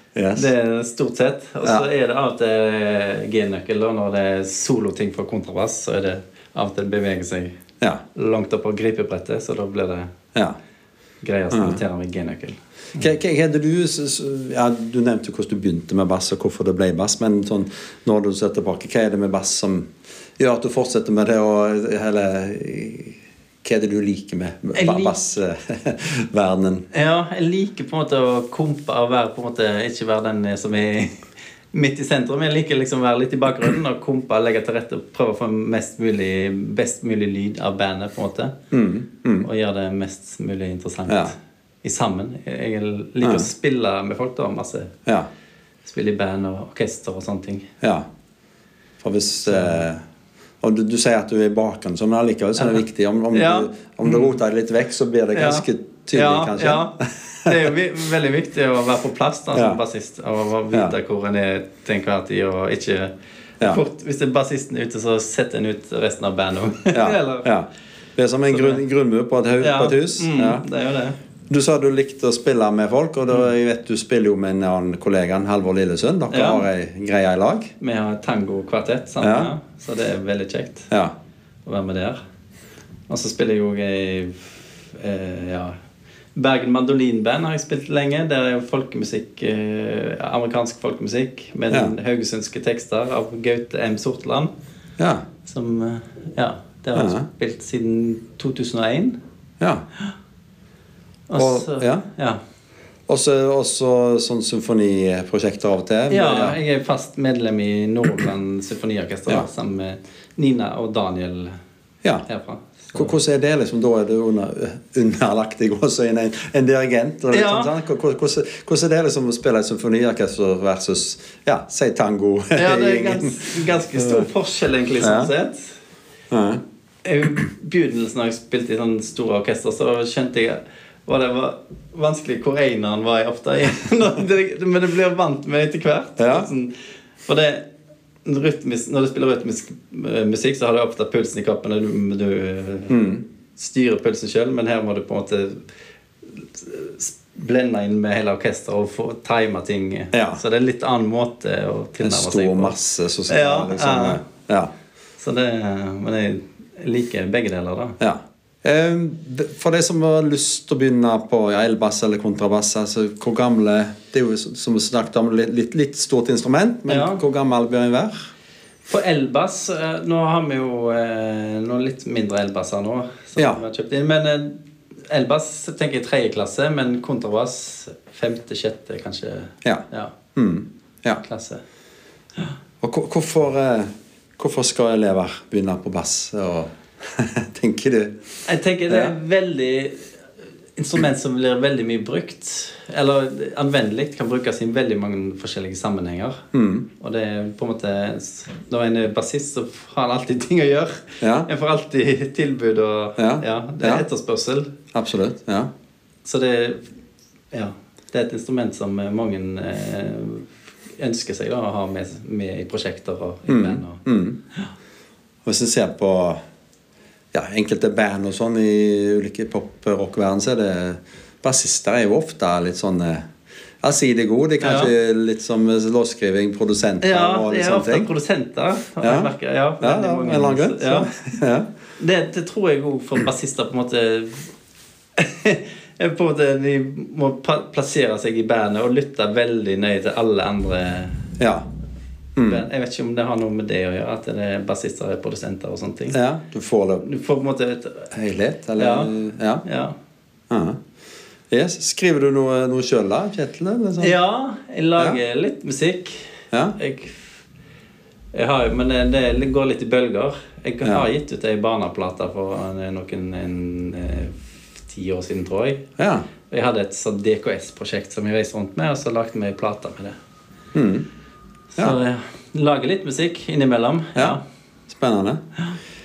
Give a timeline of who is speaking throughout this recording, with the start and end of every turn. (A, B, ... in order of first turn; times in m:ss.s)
0:00.1-0:00.5 A
0:00.4-0:07.5 B
0:08.1-0:10.1 B
0:11.2-0:12.6 B
0:11.5-0:11.8 A
0:13.0-0:19.9 A
0:20.4-0:26.8 A
0:24.7-0:25.2 B
0:26.9-0:38.5 B
0:38.7-0:39.5 A
0:39.4-0:44.9 B
0:41.1-0:41.3 A
0:43.2-0:43.5 A
0:45.8-0:47.7 B
0:49.0-0:50.0 A
0:49.5-0:49.8 B
0:50.6-0:56.9 A
0:53.3-0:54.4 B
0:55.3-1:07.5 B
0:59.5-0:59.8 A
1:06.9-1:10.6 A
1:08.5-1:08.8 B
1:09.6-1:11.2 B
1:11.5-1:17.7 A
1:16.3-1:16.6 B
1:17.8-1:20.9 B
1:19.2-1:19.5 A
1:21.6-1:22.2 B
1:23.1-1:25.7 B
1:26.4-1:34.5 B
1:35.4-1:39.2 B
1:36.9-1:37.2 A
1:41.3-1:42.4 B
1:41.4-1:42.0 A
1:43.1-1:46.6 A
1:46.1-1:51.5 B
1:52.3-1:53.1 B
1:52.9-2:04.2 A
1:57.3-1:57.7 B
2:02.5-2:05.7 B
2:05.0-2:05.3 A
2:06.3-2:06.6 A
2:07.0-2:16.7 B
2:16.2-2:16.5 A
2:17.2-2:17.6 B
2:18.2-2:23.0 B
2:22.9-2:23.2 A
2:23.6-2:25.6 B
2:26.3-2:32.7 B
2:30.1-2:30.4 A
2:32.0-2:34.7 A
2:33.3-2:34.2 B
2:35.2-2:38.0 B
2:38.0-2:48.1 A
2:46.9-2:47.2 B
2:48.9-3:00.2 B
2:53.4-2:53.6 A
3:00.3-3:01.2 A
3:01.2-3:01.6 B
3:02.8-3:08.1 A
3:08.4-3:10.1 B
3:08.9-3:09.1 A
3:10.8-3:16.4 B
3:16.5-3:16.9 A
3:17.0-3:24.7 B
3:21.2-3:21.5 A
3:23.2-3:24.0 A
3:24.9-3:25.7 A
3:26.2-3:26.8 B
3:27.5-3:34.0 B
3:33.5-3:34.4 A
3:35.4-3:36.4 A
3:37.3-3:43.3 A
3:43.8-3:48.1 A
3:44.6-3:44.9 B
3:47.0-3:51.1 B
3:49.0-3:51.7 A
3:52.0-3:54.5 B
3:55.2-4:01.3 B
4:01.4-4:01.6 A
4:02.4-4:02.6 A
4:02.4-4:06.2 B
4:06.1-4:07.0 A
4:07.0-4:08.1 B
4:08.1-4:09.6 A
4:08.8-4:09.1 B
4:09.6-4:09.9 B
4:10.5-4:10.8 A
4:11.5-4:14.2 A
4:14.0-4:17.2 B
4:18.3-4:25.8 B
4:26.0-4:26.2 A
4:26.5-4:30.2 B
4:30.7-4:31.0 A
4:31.8-4:34.4 B
4:34.2-4:35.4 A